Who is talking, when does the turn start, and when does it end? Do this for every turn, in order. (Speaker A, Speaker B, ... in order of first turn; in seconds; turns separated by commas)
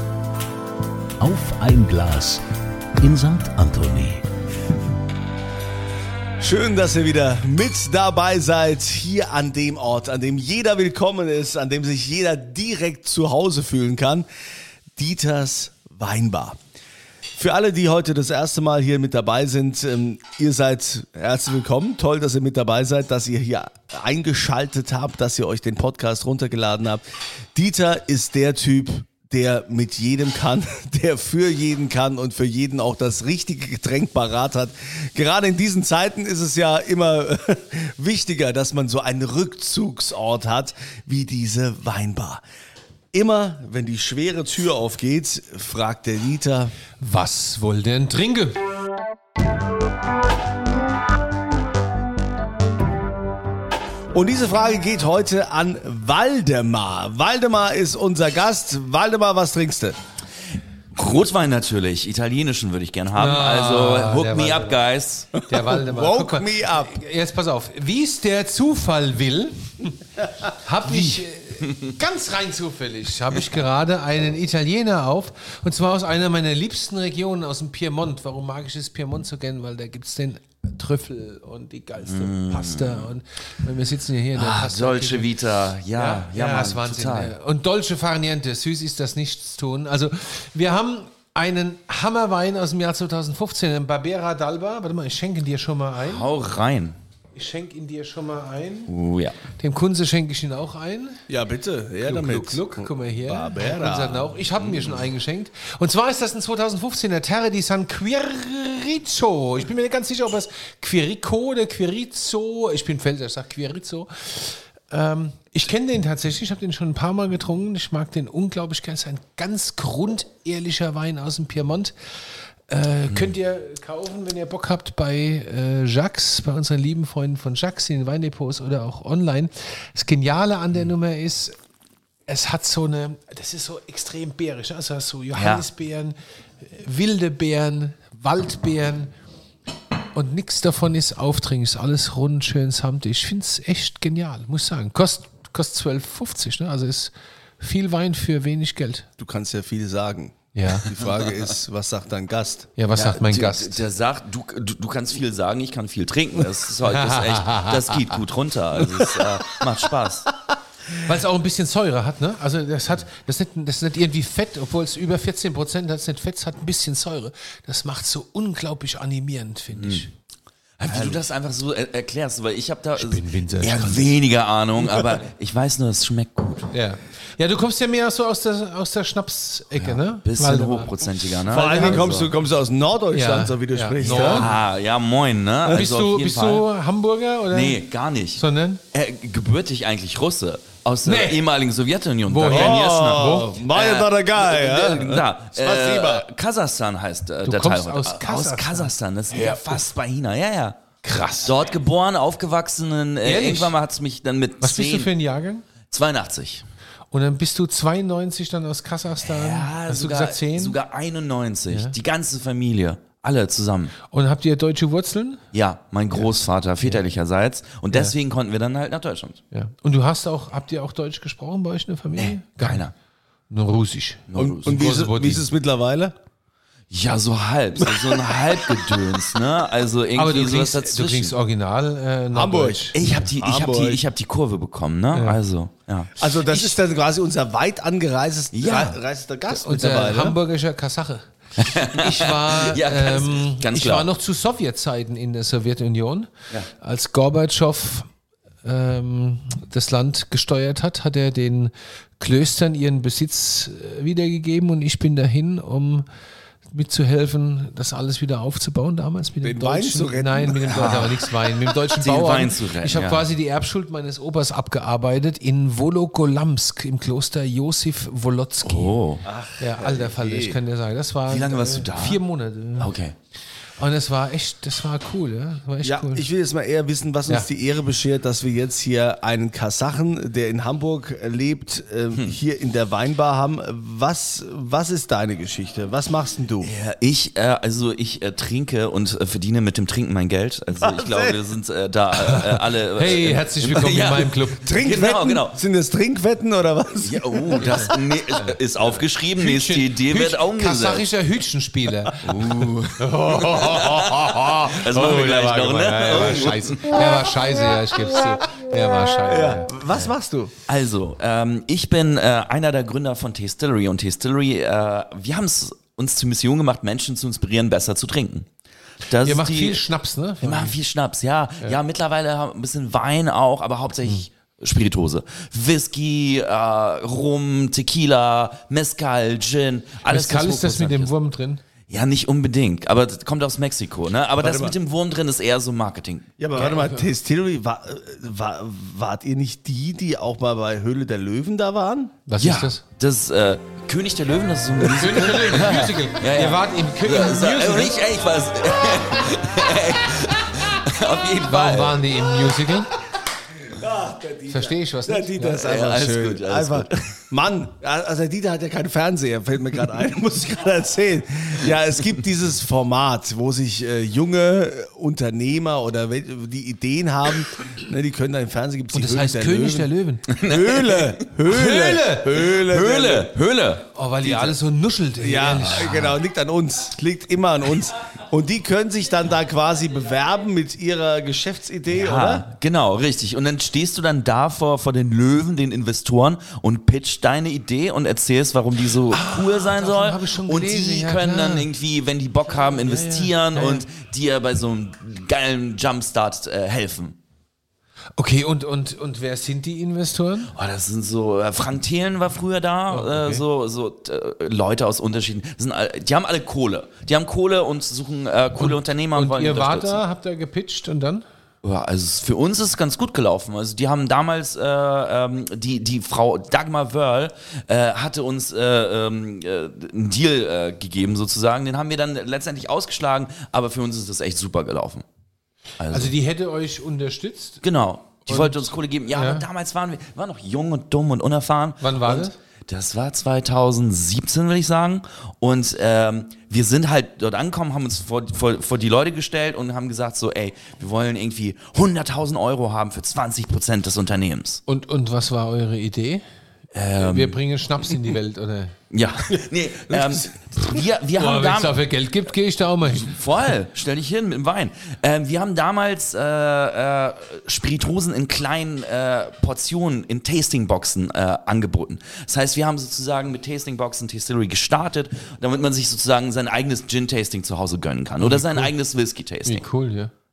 Speaker A: 1.2-2.4, Speaker A: 3.0-4.3, Speaker B: 6.4-14.3, Speaker B: 15.0-16.6, Speaker B: 17.4-27.0, Speaker B: 27.6-42.4, Speaker B: 43.1-46.7, Speaker C: 47.0-48.6, Speaker B: 54.1-60.0, Speaker D: 61.0-65.4, Speaker C: 63.1-64.8, Speaker C: 65.4-69.9, Speaker B: 65.5-67.0, Speaker C: 70.5-85.3, Speaker D: 82.1-83.1, Speaker D: 84.3-87.3, Speaker C: 86.0-96.3, Speaker D: 96.0-97.0, Speaker C: 97.3-98.9, Speaker D: 98.9-99.4, Speaker C: 99.6-101.2, Speaker B: 101.3-104.3, Speaker C: 102.0-121.9, Speaker D: 104.6-105.0, Speaker C: 122.7-131.6, Speaker C: 132.3-139.1, Speaker D: 135.3-135.7, Speaker C: 140.1-149.1, Speaker B: 149.2-152.7, Speaker C: 150.6-150.9, Speaker C: 152.8-153.8, Speaker D: 152.9-160.3, Speaker C: 156.8-158.2, Speaker C: 161.0-170.1, Speaker D: 169.8-170.1, Speaker C: 170.8-171.2, Speaker D: 170.9-176.7, Speaker C: 173.0-174.2, Speaker C: 176.7-180.9, Speaker D: 179.8-182.3, Speaker B: 181.5-184.6, Speaker C: 181.6-182.0, Speaker C: 183.1-184.5, Speaker D: 184.0-186.7, Speaker C: 185.7-187.8, Speaker D: 187.5-200.8, Speaker C: 188.3-188.8, Speaker C: 191.1-191.4, Speaker C: 192.3-193.3, Speaker B: 192.5-196.3, Speaker C: 197.4-199.6, Speaker C: 201.0-201.5, Speaker D: 201.4-205.1, Speaker C: 203.2-203.7, Speaker C: 204.6-205.7, Speaker D: 205.9-206.7, Speaker C: 207.1-210.8, Speaker D: 209.2-213.9, Speaker C: 214.1-215.4, Speaker D: 215.5-219.4, Speaker C: 219.5-222.8, Speaker D: 222.2-222.9, Speaker C: 223.5-225.4, Speaker D: 224.3-224.8, Speaker B: 224.4-226.2, Speaker D: 226.9-231.3, Speaker C: 230.2-233.2, Speaker B: 232.3-234.0, Speaker D: 232.9-236.8, Speaker C: 235.1-235.4, Speaker B: 236.2-240.4, Speaker D: 238.5-239.0, Speaker C: 239.5-248.1, Speaker D: 241.6-244.1, Speaker C: 248.6-256.1, Speaker C: 256.7-268.9, Speaker B: 259.4-261.1, Speaker D: 260.7-261.2, Speaker D: 261.9-263.3, Speaker D: 268.6-269.2, Speaker B: 269.2-270.6, Speaker C: 269.6-272.9, Speaker D: 271.3-272.2, Speaker D: 272.8-273.1, Speaker C: 273.8-276.3, Speaker B: 275.8-286.7, Speaker D: 286.6-295.6, Speaker B: 290.7-291.4, Speaker C: 292.2-294.7, Speaker B: 294.6-297.9, Speaker D: 297.0-301.1, Speaker C: 297.6-298.6, Speaker C: 299.4-309.8, Speaker D: 302.2-307.0, Speaker B: 309.3-310.5, Speaker D: 310.7-318.5, Speaker D: 319.1-319.9, Speaker C: 319.2-320.8, Speaker D: 320.4-331.1, Speaker C: 330.1-331.6, Speaker D: 331.9-336.3, Speaker B: 334.4-334.8, Speaker B: 336.4-342.2, Speaker C: 336.6-337.1, Speaker C: 342.3-342.8, Speaker D: 342.4-352.1, Speaker C: 344.9-348.0, Speaker C: 351.5-352.9, Speaker B: 353.7-373.3, Speaker C: 354.5-355.6, Speaker D: 355.6-357.1, Speaker C: 368.9-370.3, Speaker D: 370.3-371.3, Speaker C: 371.5-372.4, Speaker D: 372.4-374.5, Speaker C: 373.9-376.2, Speaker B: 375.2-382.5, Speaker D: 381.9-397.2, Speaker C: 389.1-391.7, Speaker C: 392.5-393.9, Speaker C: 398.2-400.5, Speaker D: 400.5-410.0, Speaker C: 402.9-403.4, Speaker C: 408.6-411.2, Speaker D: 411.6-425.1, Speaker D: 425.8-426.1, Speaker C: 425.9-427.6, Speaker D: 427.6-444.6, Speaker C: 428.3-429.5, Speaker C: 431.8-432.4, Speaker C: 444.7-446.2, Speaker D: 446.7-447.4, Speaker C: 447.0-453.2, Speaker D: 448.9-451.8, Speaker D: 452.9-469.7, Speaker C: 468.2-468.7, Speaker C: 469.5-470.1